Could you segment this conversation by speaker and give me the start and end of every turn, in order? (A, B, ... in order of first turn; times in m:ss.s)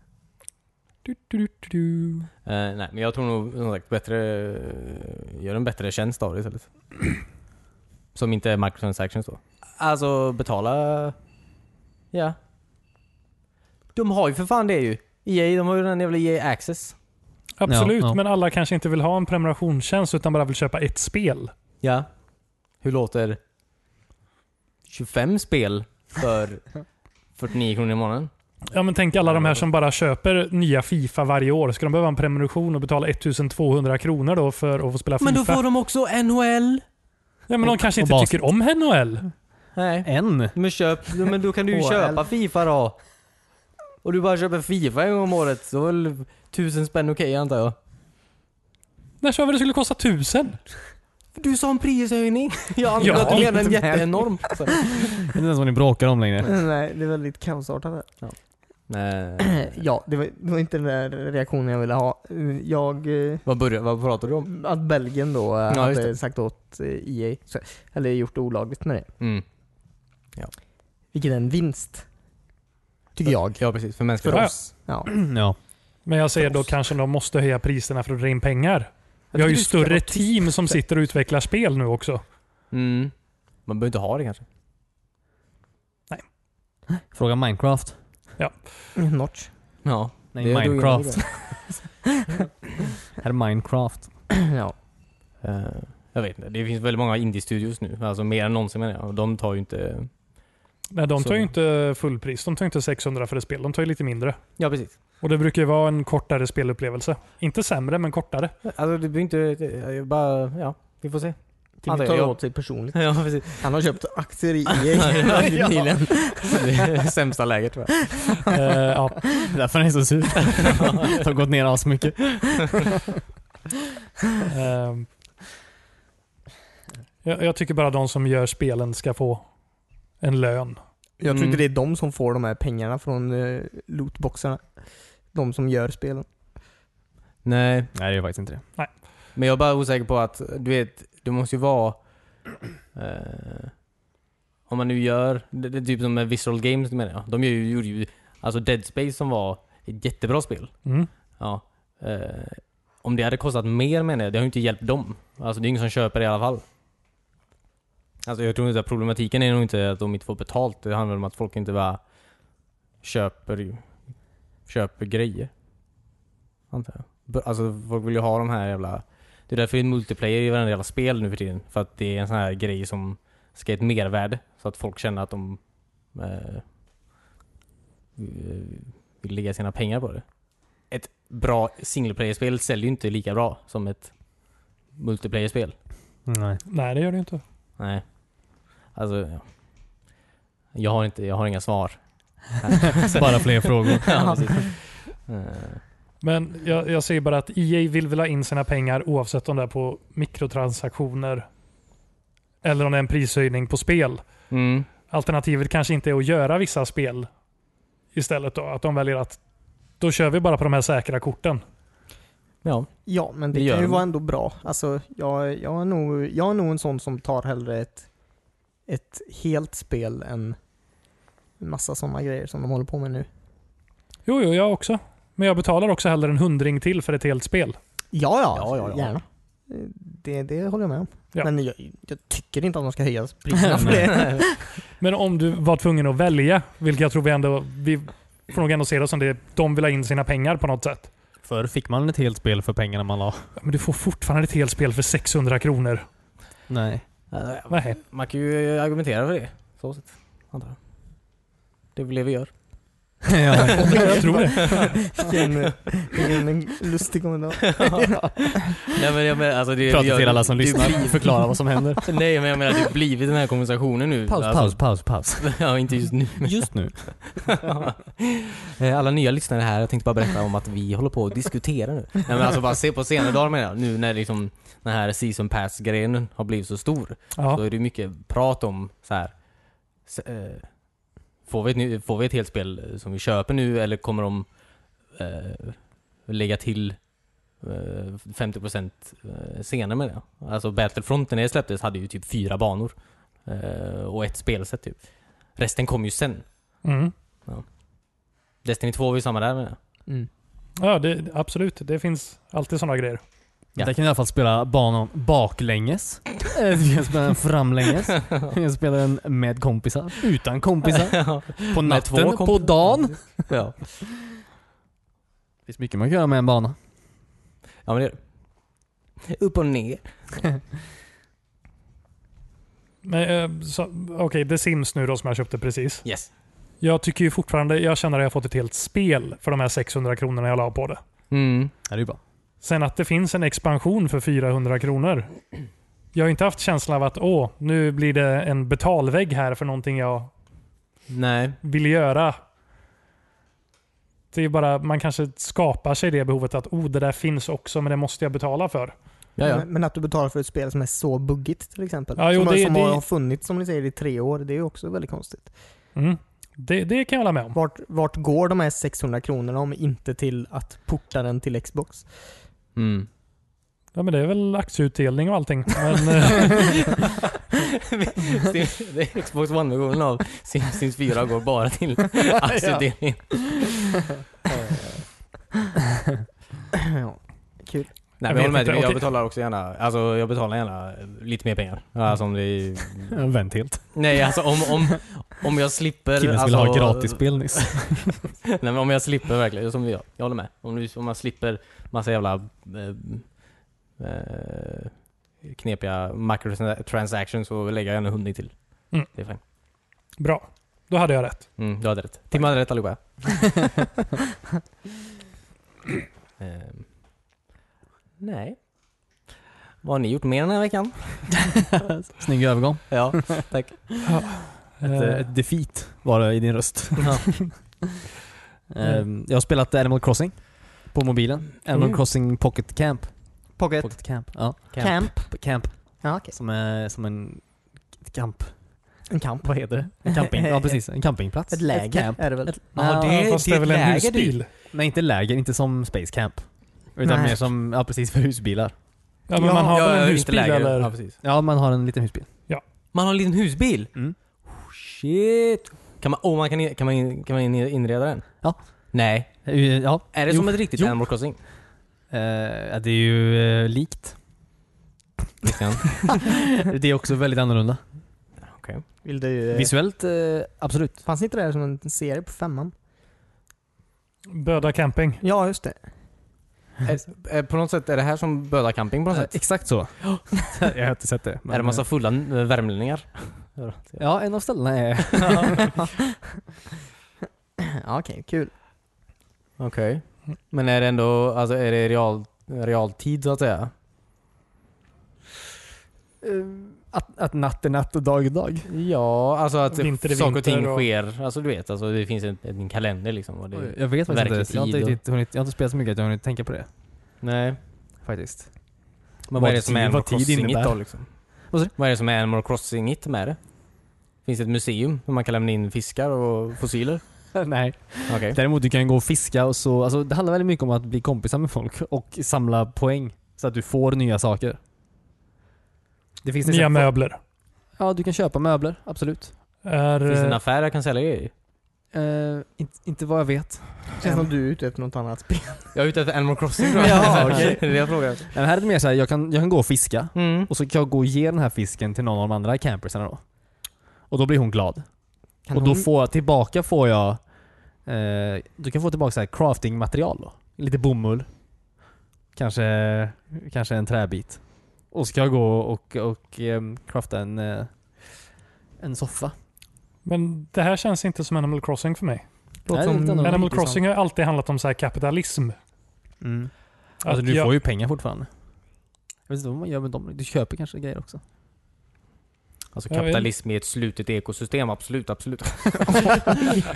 0:01.1-0:02.2 A
0:02.4-0:07.2 B
0:08.1-0:11.1 B
0:13.9-0:16.9 B
0:17.6-0:21.5 A
0:17.7-0:18.2 C
0:21.8-0:22.1 B
0:22.8-0:23.4 B
0:24.9-0:26.7 B
0:27.4-0:28.3 B
0:28.7-0:35.6 A
0:29.2-0:29.6 B
0:35.2-0:36.8 B
0:37.5-0:39.3 A
0:37.6-0:38.4 C
0:39.7-0:43.0 B
0:40.0-0:40.5 C
0:41.7-0:42.2 D
0:44.0-0:47.8 B
0:49.2-0:50.6 A
0:51.3-0:54.9 B
0:53.0-0:55.0 D
0:53.0-0:53.5 A
0:55.2-0:56.5 C
0:56.4-0:58.1 D
0:58.9-0:59.8 B
0:59.4-1:03.4 D
1:03.4-1:04.5 B
1:04.4-1:09.1 D
1:05.7-1:06.1 B
1:09.2-1:09.4 B
1:11.1-1:12.0 D
1:13.1-1:15.1 D
1:13.3-1:14.5 B
1:15.0-1:15.6 C
1:16.0-1:22.2 A
1:19.3-1:20.8 D
1:22.7-1:23.1 B
1:23.6-1:24.4 B
1:27.0-1:28.0 C
1:28.4-1:28.7 A
1:29.0-1:29.5 D
1:29.8-1:31.5 B
1:30.3-1:31.5 C
1:31.2-1:31.7 D
1:33.2-1:34.1 C
1:34.4-1:34.7 D
1:35.4-1:40.1 B
1:40.9-1:44.4 A
1:41.2-1:41.5 B
1:44.6-1:44.9 B
1:45.2-1:48.5 A
1:48.6-1:53.7 B
1:51.8-1:56.7 D
1:54.9-1:58.5 B
1:58.5-1:59.2 A
1:59.4-2:03.0 C
2:00.6-2:01.2 B
2:04.5-2:05.1 A
2:07.2-2:09.5 A
2:10.2-2:10.8 A
2:11.2-2:14.7 D
2:11.3-2:11.6 B
2:15.3-2:16.2 D
2:17.4-2:17.9 B
2:17.9-2:18.6 C
2:19.3-2:22.0 B
2:22.9-2:23.7 B
2:24.7-2:30.8 B
2:31.4-2:36.6 B
2:38.2-2:42.0 B
2:43.0-2:44.0 B
2:44.6-2:45.5 B
2:46.7-2:56.6 B
2:58.2-3:00.2 B
3:00.9-3:04.1 B
3:04.9-3:05.7 B
3:06.3-3:06.6 C
3:06.7-3:07.4 A
3:07.8-3:08.0 B
3:08.9-3:09.4 B
3:10.7-3:15.8 B
3:13.0-3:14.6 C
3:14.1-3:14.5 D
3:16.2-3:21.4 A
3:22.6-3:24.3 A
3:24.5-3:24.9 B
3:25.1-3:27.3 A
3:28.1-3:29.4 A
3:30.0-3:31.6 A
3:32.6-3:32.9 B
3:33.0-3:38.1 D
3:33.5-3:34.0 B
3:38.9-3:40.6 D
3:41.6-3:43.3 D
3:44.2-3:47.8 A
3:48.1-3:54.8 D
3:48.5-3:49.1 B
3:53.6-3:54.2 C
3:53.9-3:54.4 B
3:55.0-4:01.1 A
4:01.4-4:03.5 C
4:03.6-4:06.0 A
4:06.7-4:07.0 C
4:07.3-4:10.8 B
4:07.7-4:08.0 A
4:11.9-4:12.5 B
4:13.2-4:14.5 C
4:13.7-4:15.0 A
4:13.9-4:18.8 D
4:14.6-4:15.4 B
4:17.7-4:18.2 B
4:18.9-4:39.3 B
4:19.8-4:22.1 C
4:24.3-4:25.6 C
4:26.4-4:27.5 C
4:37.4-4:37.6 A
4:40.0-4:40.7 B
4:41.4-4:44.4 B
4:45.1-4:47.0 B
4:47.6-4:56.4 B
4:56.8-4:57.1 A
4:58.6-4:59.8 B
5:00.8-5:03.2 A
5:03.8-5:13.4 C
5:10.9-5:13.9 B
5:15.7-5:16.8 C
5:17.8-5:18.2 B
5:19.2-5:20.5 B
5:23.0-5:26.0 A
5:26.8-5:31.0 A
5:31.3-5:31.7 B
5:31.9-5:32.2 C
5:32.6-5:35.4 A
5:36.1-5:40.3 A
5:41.1-5:41.6 B
5:41.6-5:42.4 A
5:44.3-5:48.9 A
5:49.4-5:49.6 B
5:49.4-5:55.5 D
5:52.2-5:53.0 A
5:55.9-5:57.6 A
5:57.5-6:02.3 D
6:02.7-6:03.1 B
6:03.9-6:06.9 A
6:07.9-6:13.9 B
6:14.5-6:15.0 B
6:16.8-6:17.9 D
6:18.2-6:23.2 B
6:18.2-6:19.1 A
6:23.1-6:24.4 C
6:23.9-6:39.4 B
6:26.2-6:28.2 C
6:40.2-6:41.5 A
6:41.6-6:43.6 B
6:46.4-6:46.9 B
6:48.2-6:48.6 B
6:49.8-6:51.4 B
6:51.5-6:53.5 C
6:52.9-6:54.0 B
6:54.0-6:55.2 A
6:54.8-6:57.6 C
6:57.0-6:57.3 B
6:58.7-7:08.5 C
7:01.7-7:02.0 B
7:03.6-7:05.3 D
7:06.0-7:06.3 D
7:09.1-7:10.8 D
7:09.8-7:13.2 C
7:11.5-7:12.5 D
7:12.6-7:14.4 B
7:12.9-7:14.5 A
7:14.7-7:18.7 C
7:17.0-7:17.4 D
7:19.3-7:20.9 A
7:19.4-7:19.8 D
7:19.6-7:21.2 B
7:21.2-7:22.3 C
7:22.9-7:23.9 B
7:24.4-7:28.3 B
7:28.9-7:29.5 B
7:29.4-7:31.0 C
7:30.1-7:31.4 B
7:32.1-7:34.2 C
7:35.4-7:36.2 B
7:36.1-7:37.8 C
7:38.4-7:38.8 B
7:39.0-7:39.7 D
7:39.5-7:41.0 C
7:41.0-7:42.7 D
7:44.3-7:45.2 A
7:45.2-7:45.8 D
7:46.8-7:49.8 B
7:49.1-7:51.8 C
7:51.5-7:54.0 B
7:54.0-7:55.7 C
7:55.1-7:55.7 B
7:57.6-7:58.5 D
7:59.6-8:03.7 B
8:06.2-8:08.7 C
8:08.7-8:15.0 B
8:09.7-8:10.9 A
8:13.5-8:16.7 C
8:17.2-8:17.6 B
8:18.0-8:18.5 C
8:19.3-8:23.4 B
8:19.3-8:20.8 C
8:21.4-8:21.7 C
8:24.2-8:27.0 B
8:27.3-8:34.6 C
8:28.1-8:28.4 B
8:36.2-8:36.9 C
8:36.4-8:37.2 A
8:37.8-8:39.3 C
8:39.6-8:40.4 A
8:40.0-8:41.3 B
8:41.9-8:44.2 C
8:44.0-8:45.7 D
8:45.7-8:48.3 B
8:46.7-8:47.7 D
8:46.8-8:53.2 C
8:50.1-8:50.5 B
8:54.1-8:54.8 C
8:55.5-8:55.9 D
8:55.5-8:57.2 C
8:57.8-9:01.3 C
9:02.3-9:08.3 C
9:08.8-9:09.3 C
9:10.0-9:12.2 A
9:12.6-9:13.6 D
9:12.7-9:13.8 C
9:13.2-9:15.6 A
9:16.2-9:18.3 C
9:17.0-9:17.5 A
9:19.3-9:21.2 C
9:22.7-9:26.6 B
9:22.9-9:23.3 A